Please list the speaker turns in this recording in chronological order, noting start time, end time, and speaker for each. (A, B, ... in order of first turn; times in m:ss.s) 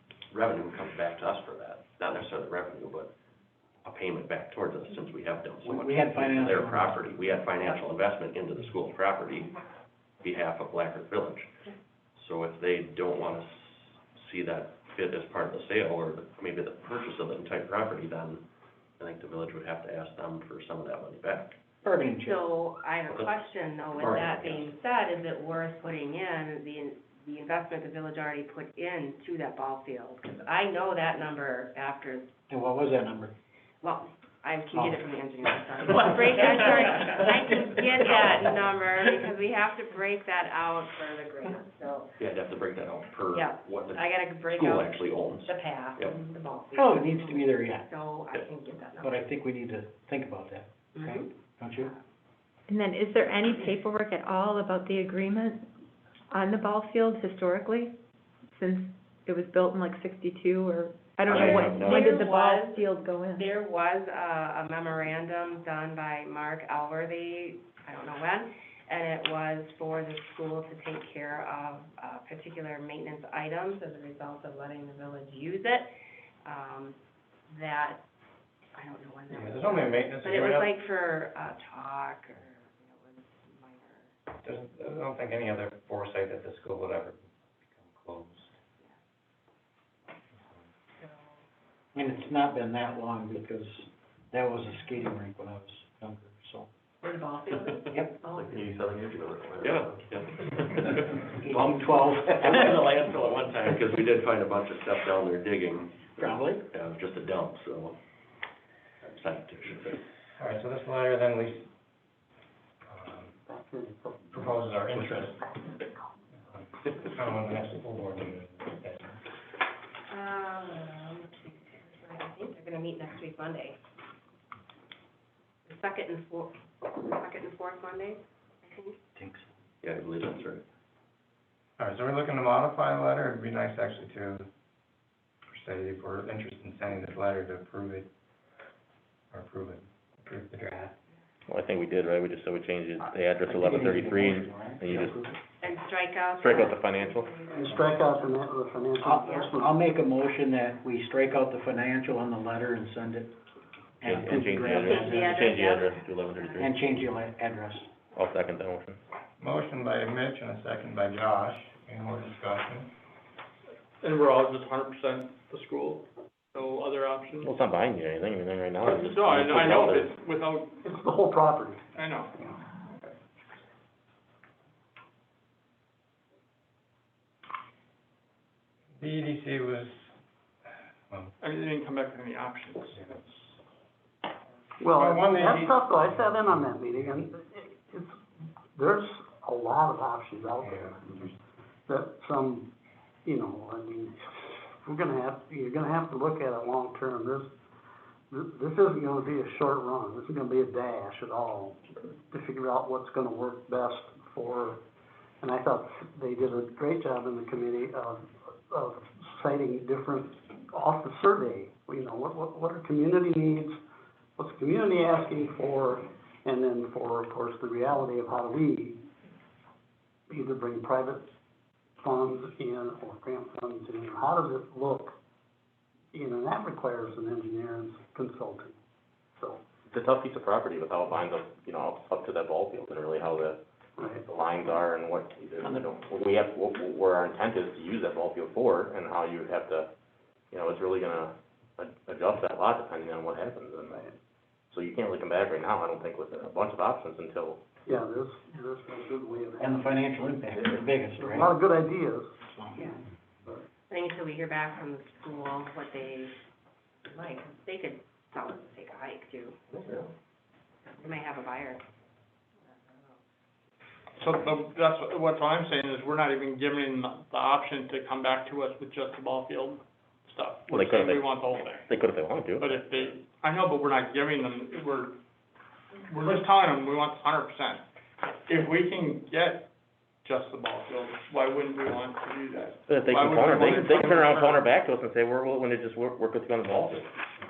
0:00.3-0:03.1 A
0:03.8-0:09.5 A
0:05.6-0:07.2 B
0:10.2-0:11.5 A
0:12.2-0:18.4 A
0:19.0-0:21.5 A
0:21.8-0:22.4 B
0:21.9-0:32.3 C
0:24.0-0:24.6 A
0:32.5-0:33.3 B
0:33.8-0:42.1 C
0:34.7-0:38.5 B
0:42.2-0:46.2 A
0:43.3-0:49.2 C
0:46.7-0:47.9 B
0:49.0-0:51.9 B
0:50.9-0:51.9 C
0:52.7-0:55.7 D
0:56.3-0:58.0 D
0:58.5-1:03.4 D
1:01.3-1:02.0 E
1:01.3-1:15.9 C
1:16.4-1:17.0 C
1:17.5-1:18.0 C
1:18.7-1:24.1 C
1:19.3-1:20.7 F
1:24.4-1:28.5 F
1:31.0-1:31.4 C
1:31.9-1:36.7 B
1:37.0-1:38.4 C
1:37.9-1:38.8 B
1:38.2-1:40.0 E
1:39.6-1:48.0 A
1:40.8-1:42.9 B
1:46.2-1:46.6 B
1:49.0-1:50.0 A
1:50.4-1:51.7 F
1:52.9-1:53.4 F
1:53.5-1:54.5 G
1:54.3-1:55.5 F
1:56.5-1:59.2 F
2:00.1-2:03.8 C
2:05.7-2:09.0 C
2:09.2-2:09.4 B
2:09.8-2:10.6 A
2:11.8-2:14.5 F
2:15.5-2:18.1 F
2:19.3-2:20.9 F
2:21.5-2:25.2 E
2:23.4-2:25.4 B
2:25.6-2:28.4 C
2:26.4-2:27.3 E
2:27.5-2:29.8 G
2:29.0-2:29.6 C
2:29.0-2:33.4 B
2:34.0-2:35.4 B
2:34.0-2:36.9 E
2:34.6-2:36.9 C
2:36.6-2:37.9 B
2:38.1-2:39.0 E
2:39.4-2:42.9 F
2:44.0-2:47.5 H
2:47.4-2:50.1 E
2:48.8-2:50.8 H
2:50.8-2:52.6 G
2:52.0-2:52.4 H
2:59.0-3:00.1 F
3:01.4-3:03.0 H
3:03.0-3:03.5 F
3:04.8-3:08.2 G
3:04.9-3:06.7 F
3:08.7-3:11.3 G
3:10.6-3:11.3 F
3:11.9-3:12.7 G
3:13.2-3:17.5 G
3:18.3-3:24.8 G
3:25.4-3:33.8 G
3:34.4-3:39.0 G
3:40.3-3:41.3 G
3:42.0-3:45.2 G
3:46.1-3:48.8 G
3:49.9-3:53.6 E
3:54.0-3:54.2 G
3:54.2-3:59.9 E
3:55.6-3:55.9 B
4:00.5-4:04.0 E
4:03.9-4:04.1 G
4:04.7-4:07.6 E
4:07.8-4:10.0 G
4:09.6-4:11.5 B
4:11.2-4:13.6 G
4:12.5-4:12.8 B
4:13.9-4:16.3 C
4:17.1-4:20.0 C
4:21.0-4:21.8 C
4:24.2-4:31.9 H
4:30.7-4:33.2 E
4:32.6-4:35.1 H
4:36.1-4:37.8 H
4:38.5-4:39.6 H
4:40.2-4:44.6 H
4:42.9-4:47.1 E